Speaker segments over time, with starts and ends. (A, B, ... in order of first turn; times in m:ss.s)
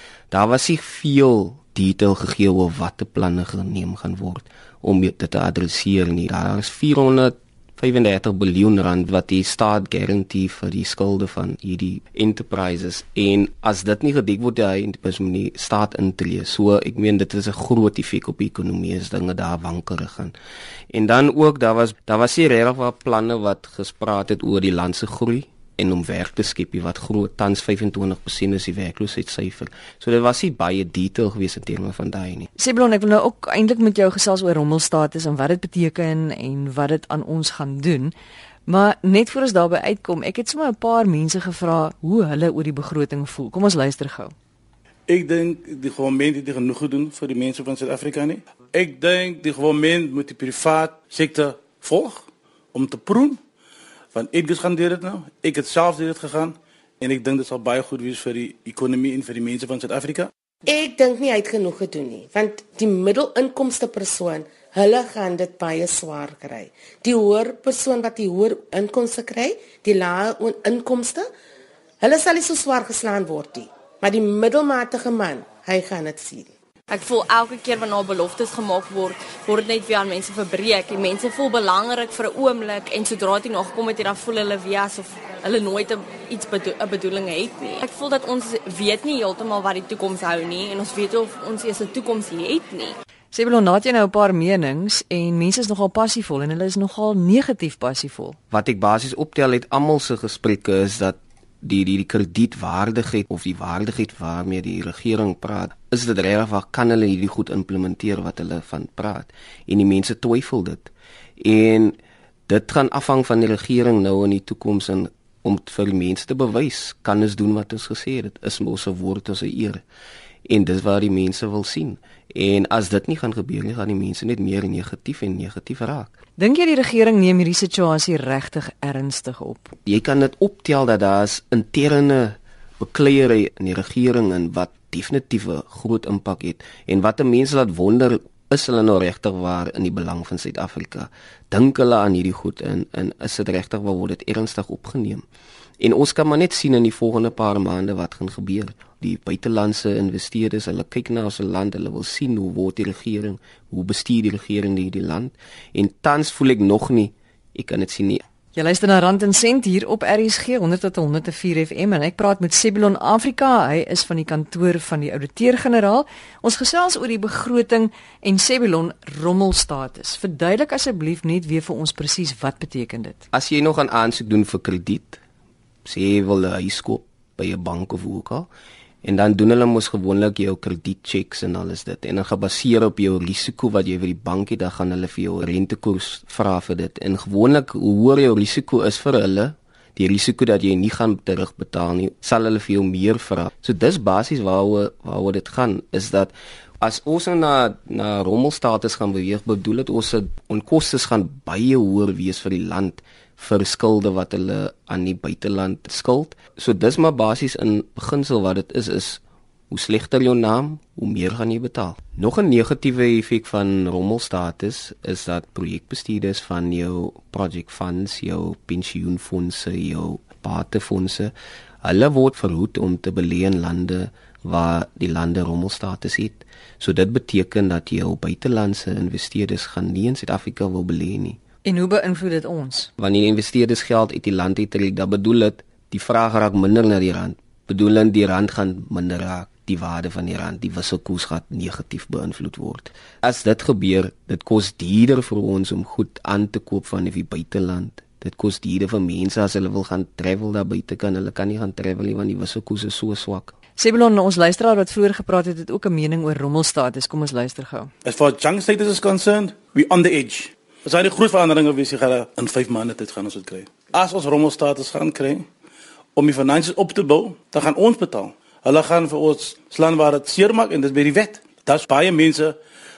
0:00.3-0:20.3 A
0:20.9-0:32.5 A
0:32.6-0:38.1 B
0:38.7-0:44.3 B
0:45.1-0:53.4 C
0:54.1-1:00.3 C
1:00.7-1:11.3 D
1:12.0-1:16.5 D
1:16.9-1:33.0 E
1:33.3-1:38.4 B
1:38.5-1:59.8 A
2:00.4-2:06.1 A
2:06.4-2:09.7 B
2:09.8-2:25.2 A
2:25.8-2:38.2 A
2:38.5-2:53.2 B
2:53.3-2:55.2 A
2:55.9-2:58.5 A
2:59.0-3:41.3 A
3:41.8-3:51.4 A
3:51.6-3:52.9 B
3:53.0-4:13.5 A
4:13.8-4:17.9 B
4:18.1-4:25.4 C
4:26.2-4:32.5 C